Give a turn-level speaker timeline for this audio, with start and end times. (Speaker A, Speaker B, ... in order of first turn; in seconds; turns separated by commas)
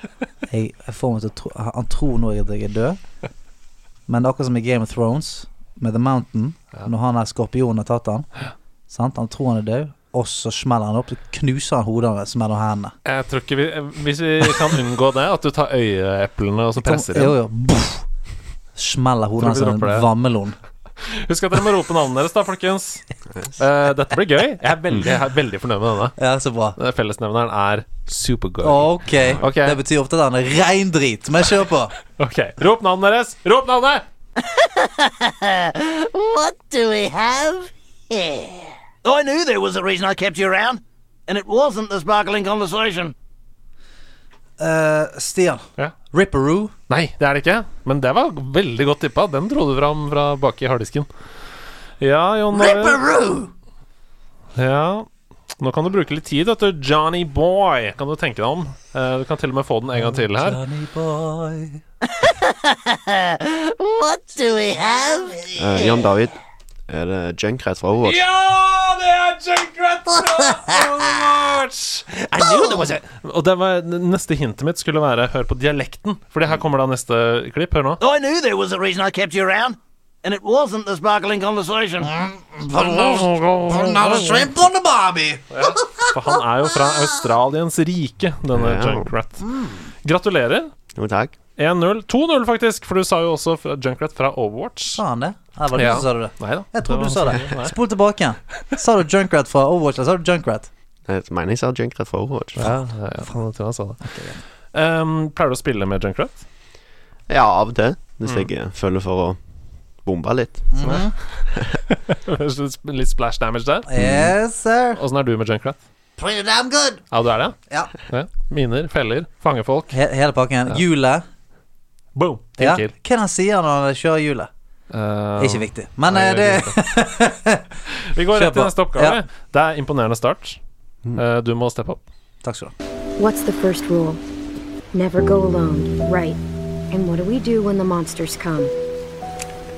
Speaker A: 0.5-3.0, Speaker A: 4.1-8.3, Speaker A: 8.9-12.9, Speaker B: 13.1-17.4, Speaker A: 16.8-18.1, Speaker A: 18.8-20.6, Speaker B: 19.4-20.1, Speaker B: 21.0-23.0, Speaker B: 23.6-26.2, Speaker A: 26.2-26.8, Speaker B: 26.8-29.8, Speaker A: 28.6-31.9, Speaker B: 32.2-34.0, Speaker A: 36.0-38.5, Speaker C: 39.0-43.1, Speaker A: 44.6-46.7, Speaker B: 46.9-51.1, Speaker B: 52.0-53.0, Speaker A: 52.5-53.5, Speaker B: 54.6-55.1, Speaker B: 55.6-60.6, Speaker A: 60.0-61.8, Speaker A: 63.7-65.9, Speaker D: 65.6-66.4, Speaker D: 66.9-68.2, Speaker B: 68.0-78.0, Speaker A: 70.3-70.8, Speaker C: 78.0-82.1, Speaker A: 82.0-87.0, Speaker B: 82.8-84.5, Speaker B: 85.5-89.5, Speaker D: 88.5-89.1, Speaker A: 89.4-89.8, Speaker B: 90.0-90.7, Speaker D: 91.0-91.3, Speaker B: 91.6-95.0, Speaker A: 95.0-100.7, Speaker B: 95.7-97.8, Speaker D: 101.1-102.6, Speaker B: 102.6-104.1, Speaker A: 104.0-104.4, Speaker B: 104.7-106.4, Speaker D: 107.3-109.4, Speaker D: 110.0-111.0, Speaker A: 110.7-111.1, Speaker B: 111.9-113.9, Speaker A: 113.9-115.0, Speaker D: 114.0-114.3, Speaker B: 115.0-115.8, Speaker A: 116.2-117.0, Speaker B: 117.1-120.0, Speaker A: 119.9-121.2, Speaker B: 122.2-122.9, Speaker A: 122.6-124.5, Speaker B: 124.9-126.8, Speaker A: 125.4-127.7, Speaker B: 128.0-130.6, Speaker A: 128.3-129.2, Speaker B: 131.2-132.0, Speaker A: 132.4-132.7, Speaker E: 133.2-134.2, Speaker E: 134.9-136.4, Speaker E: 136.9-138.7